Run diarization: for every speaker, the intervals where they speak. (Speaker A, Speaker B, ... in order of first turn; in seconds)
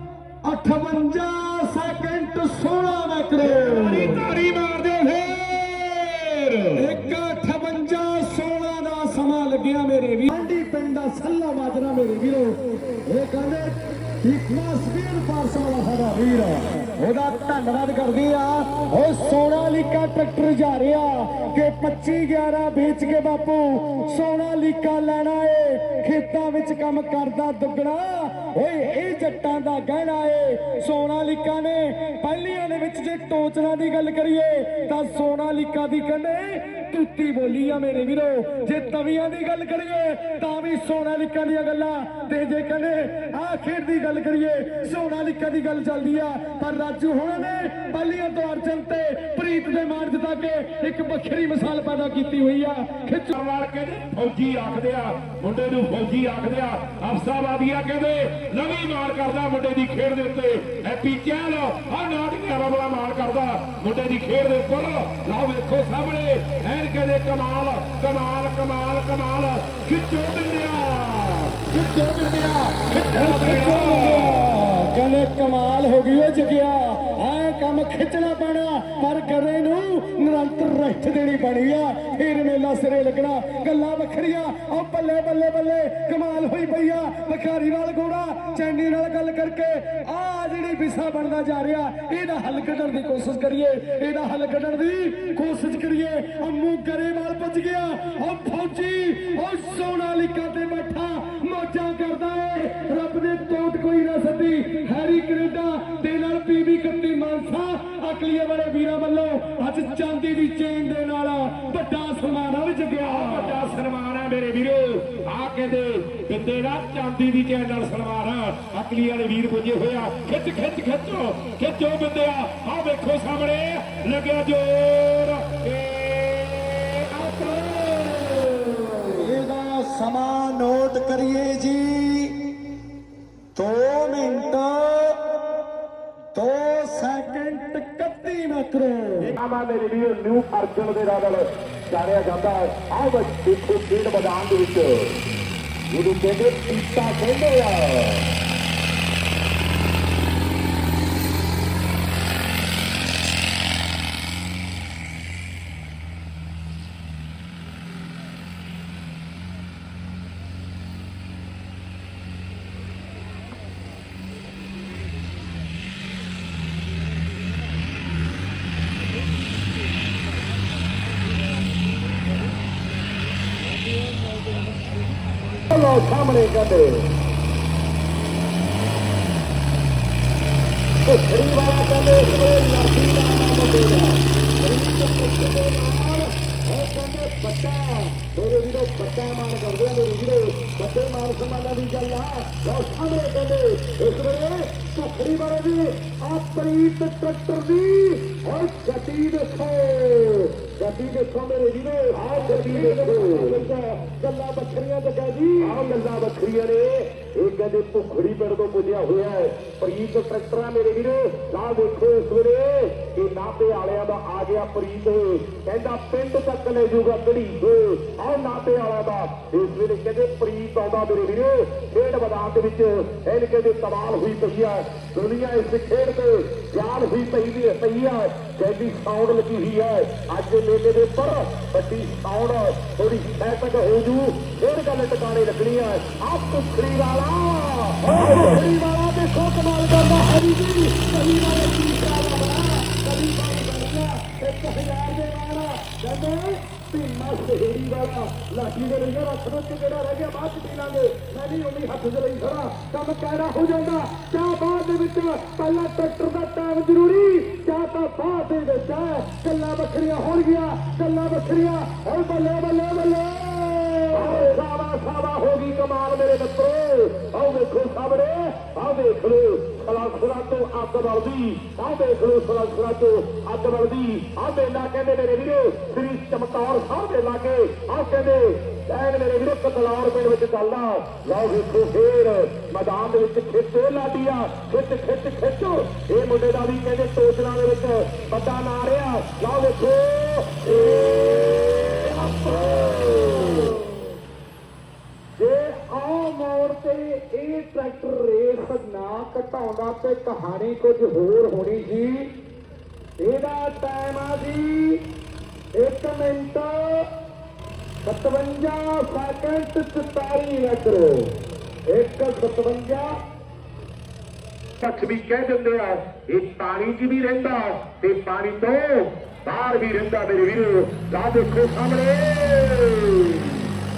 Speaker A: 0.5-4.2, 6.8-53.3, 73.1-113.6, 129.2-132.6, 133.6-135.6, 136.3-139.3, 181.2-205.8, 238.1-264.6, 290.7-294.0, 295.4-302.3, 303.2-305.1, 305.8-307.1, 308.0-311.4, 311.9-313.2
Speaker B: 3.4-6.8, 53.3-74.4, 113.1-129.2, 139.2-145.2, 145.9-148.3, 175.7-176.3, 202.1-203.8, 205.6-238.5, 264.1-292.1, 292.7-293.5, 314.8-323.7